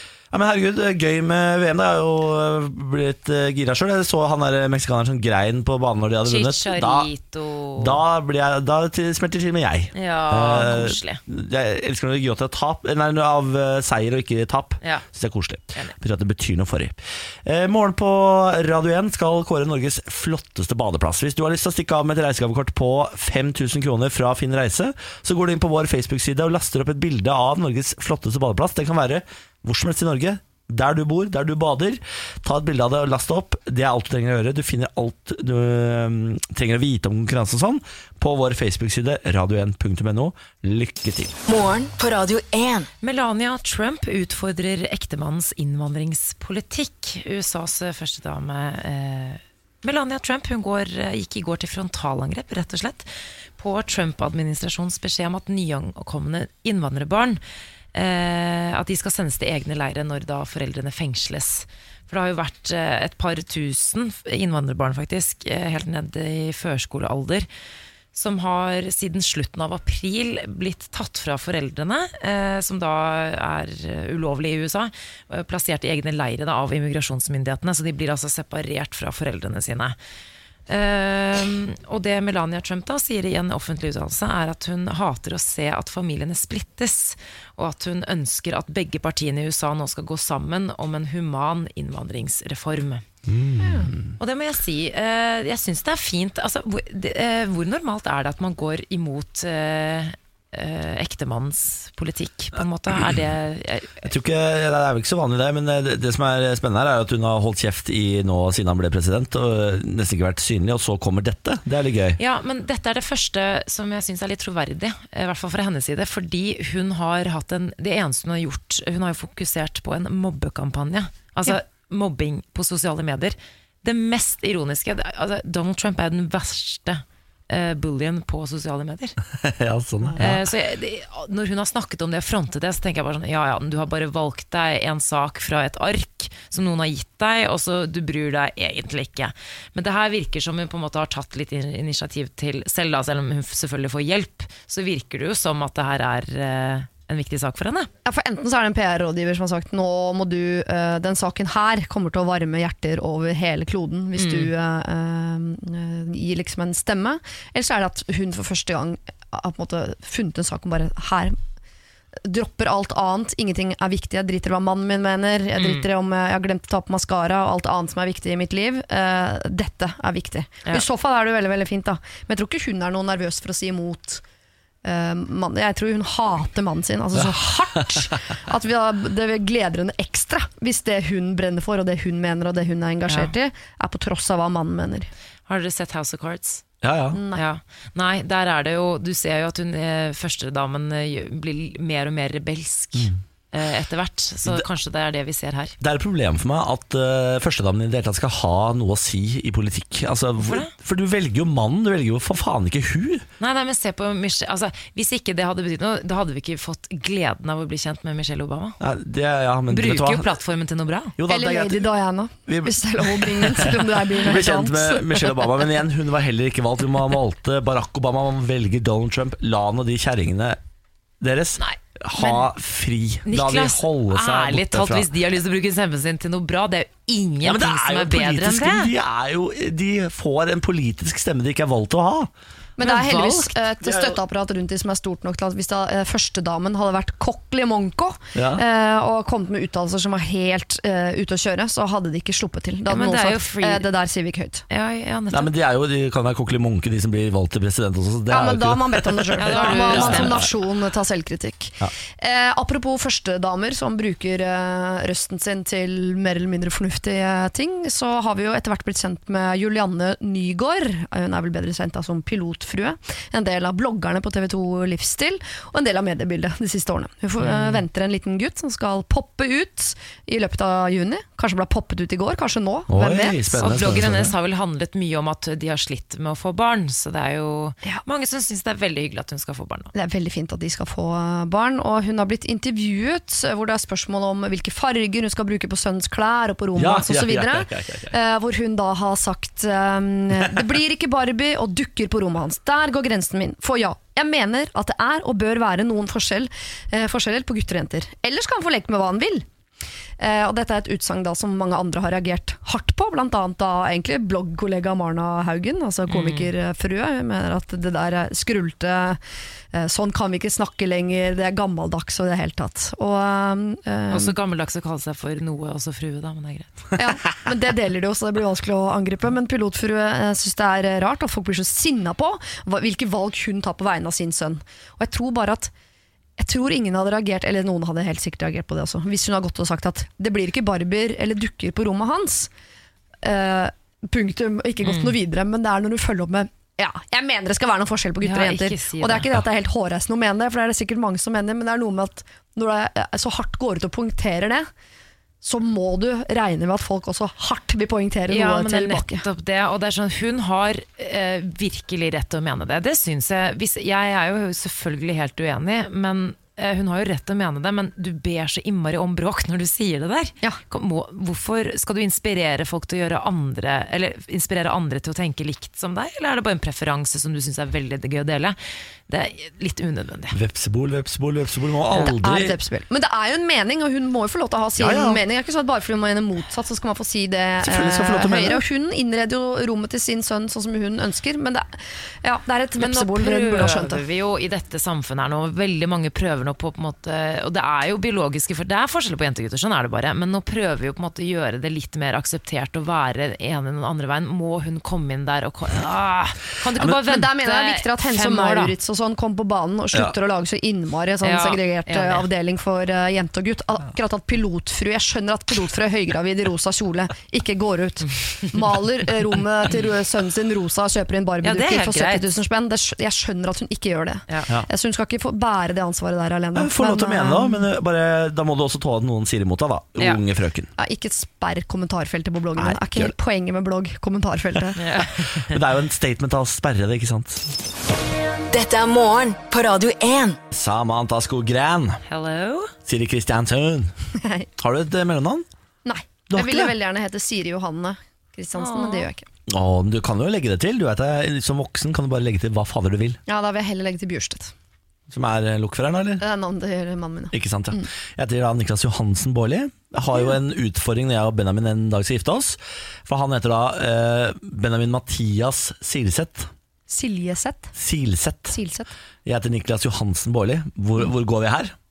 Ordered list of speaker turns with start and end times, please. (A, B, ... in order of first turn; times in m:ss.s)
0:00.3-0:07.1 A
0:06.2-0:08.0 B
0:07.8-0:41.4 A
0:09.9-0:11.2 B
0:41.5-0:42.9 C
0:43.0-0:57.4 B
0:57.9-1:07.4 B
1:08.1-1:20.0 B
1:20.7-1:33.0 B
1:33.2-1:34.2 A
1:33.6-1:33.9 D
1:34.2-1:44.1 B
1:44.0-1:52.2 A
1:52.2-2:09.2 B
2:09.4-2:10.4 A
2:10.2-2:27.9 B
2:28.0-2:41.4 D
2:34.2-2:34.5 B
2:42.2-2:54.2 D
2:45.6-2:45.8 B
2:54.8-3:05.1 D
2:57.2-2:58.0 A
3:05.5-3:06.6 B
3:06.8-3:07.2 A
3:07.1-3:07.4 D
3:07.3-3:15.7 B
3:15.8-3:23.2 A
3:20.4-3:20.7 B
3:23.4-3:28.8 B
3:28.8-3:30.3 A
3:29.7-3:31.1 B
3:31.2-3:31.9 A
3:31.3-3:35.5 D
3:32.5-3:40.6 A
3:41.2-3:45.1 A
3:41.6-3:42.4 B
3:43.2-3:48.9 B
3:47.4-3:52.3 A
3:52.8-4:04.6 D
3:52.8-3:53.5 B
3:53.8-3:54.2 A
3:58.3-3:58.6 A
4:02.9-4:03.9 B
4:04.7-4:05.5 B
4:05.3-4:10.4 A
4:08.3-4:33.9 D
4:09.4-4:10.4 B
4:27.4-4:27.8 B
4:32.9-4:34.3 A
4:33.6-4:39.9 B
4:39.9-4:59.4 D
4:46.8-4:48.1 A
5:00.2-5:09.2 D
5:06.1-5:06.5 B
5:09.7-5:14.3 D
5:14.1-5:16.9 B
5:17.0-5:25.7 D
5:26.4-5:32.5 D
5:33.2-5:44.7 D
5:34.8-5:35.1 B
5:38.2-5:39.3 B
5:45.4-5:49.2 D
5:48.3-6:08.6 B
6:09.1-6:10.3 B
6:10.3-6:12.6 A
6:11.9-6:24.0 D
6:14.8-6:15.2 A
6:17.6-6:18.6 A
6:22.8-6:38.7 B
6:36.8-6:57.6 D
6:41.2-6:42.2 B
6:51.4-6:52.4 B
6:56.5-7:00.7 A
7:00.8-7:04.8 D
7:02.6-7:03.1 A
7:04.8-7:05.6 B
7:05.2-7:07.5 A
7:08.5-7:10.4 C
7:10.5-7:12.0 A
7:12.1-7:12.7 B
7:12.8-7:13.9 A
7:14.1-7:14.5 D
7:14.6-7:15.4 A
7:15.8-7:19.2 D
7:16.3-7:16.7 A
7:18.5-7:19.1 B
7:19.5-7:23.2 A
7:23.3-7:24.5 D
7:25.1-7:26.2 A
7:26.2-7:27.9 D
7:27.3-7:36.5 A
7:36.9-7:37.7 D
7:37.8-7:38.6 A
7:38.5-7:38.9 D
7:39.2-7:41.7 A